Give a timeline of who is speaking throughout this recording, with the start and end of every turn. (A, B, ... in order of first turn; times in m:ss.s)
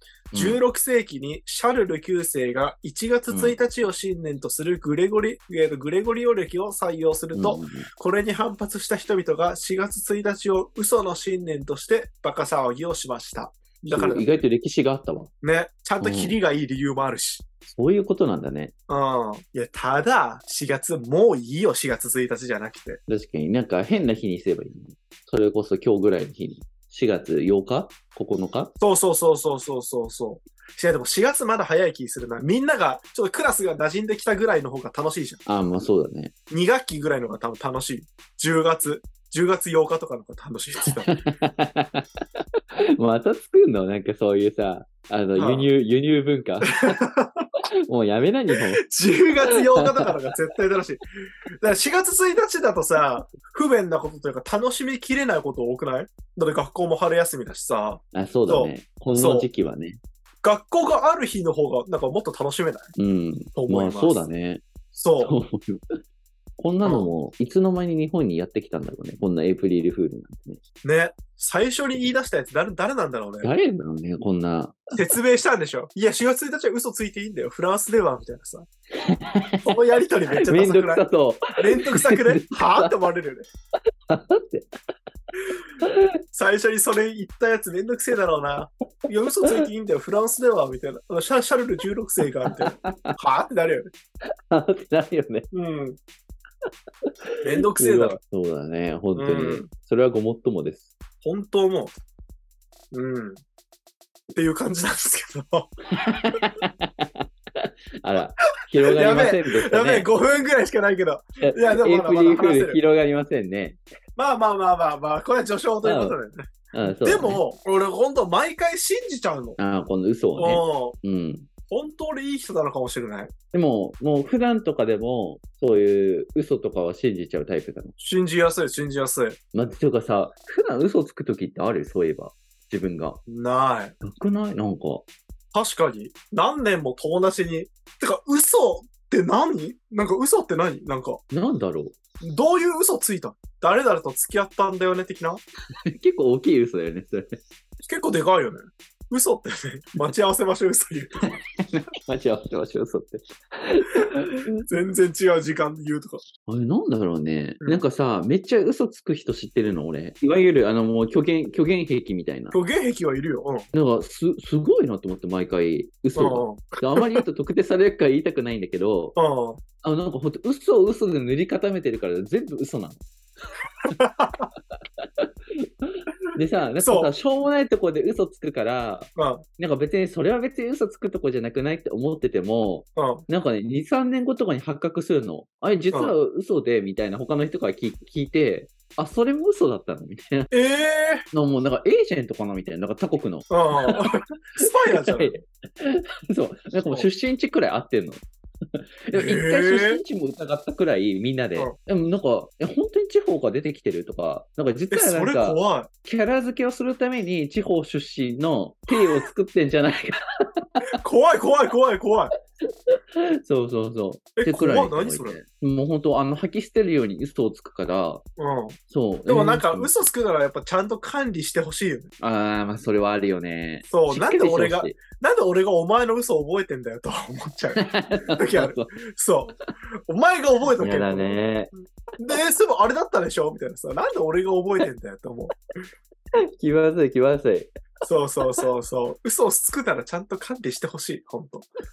0:00.3-0:00.6 A
0:00.3-0:14.3 B
0:03.3-0:03.6 A
0:07.3-0:07.9 A
0:13.9-0:15.3 A
0:15.4-0:17.4 B
0:16.0-0:16.4 A
0:17.7-0:18.7 A
0:18.9-0:23.0 B
0:23.1-0:28.7 A
0:28.8-0:35.4 B
0:35.5-0:36.3 A
0:36.5-0:41.2 B
0:41.1-0:42.0 A
0:43.0-0:47.0 A
0:45.4-0:45.7 B
0:46.7-0:47.5 B
0:47.9-0:48.8 A
0:48.5-0:51.0 B
0:51.6-0:59.5 B
0:58.1-1:00.0 A
1:00.4-1:02.9 B
1:03.0-1:04.6 A
1:03.6-1:04.2 B
1:04.9-1:05.4 B
1:05.2-1:05.8 A
1:06.6-1:10.6 A
1:06.8-1:07.1 B
1:10.8-1:13.5 B
1:13.4-1:14.9 A
1:14.9-1:18.7 B
1:19.0-1:19.7 A
1:19.6-1:23.5 B
1:20.3-1:23.0 A
1:24.1-1:24.7 A
1:26.3-1:33.9 B
1:32.4-1:33.1 A
1:34.5-1:35.5 A
1:35.5-1:36.0 B
1:37.1-1:40.9 A
1:37.4-1:38.2 B
1:39.1-1:39.7 B
1:41.2-1:41.9 B
1:42.9-1:43.4 B
1:44.3-1:45.7 B
1:45.9-1:50.1 A
1:48.8-1:52.8 B
1:51.4-1:53.8 A
1:54.2-1:59.6 B
1:55.8-1:56.2 A
1:56.7-1:57.4 A
1:59.6-2:01.5 A
2:00.4-2:01.0 B
2:01.7-2:03.3 B
2:03.5-2:07.9 A
2:08.0-2:09.4 B
2:09.5-2:13.2 A
2:13.3-2:13.9 B
2:14.0-2:15.1 A
2:15.5-2:21.2 B
2:21.3-2:21.9 A
2:22.2-2:25.4 B
2:25.9-2:27.4 A
2:27.9-2:31.4 B
2:31.7-2:34.7 A
2:34.7-2:36.2 B
2:36.4-2:42.6 A
2:42.5-2:43.7 B
2:43.7-2:49.2 A
2:46.1-2:47.2 B
2:49.2-2:49.6 B
2:49.8-2:53.0 A
2:53.9-2:54.5 B
2:55.0-3:10.5 A
2:56.8-2:57.1 B
2:59.2-2:59.4 B
3:03.0-3:03.2 B
3:10.5-3:11.2 B
3:11.3-3:14.1 A
3:13.5-3:15.4 B
3:14.9-3:18.2 A
3:19.1-3:30.8 A
3:19.1-3:20.0 B
3:24.9-3:25.9 B
3:31.0-3:32.3 B
3:32.9-3:38.2 A
3:34.4-3:35.4 B
3:38.4-3:42.1 B
3:38.9-3:39.9 A
3:42.2-3:45.0 A
3:43.9-3:51.4 B
3:47.8-3:48.9 A
3:50.8-3:51.7 A
3:52.2-3:55.6 B
3:56.4-3:57.7 A
3:58.0-4:01.7 B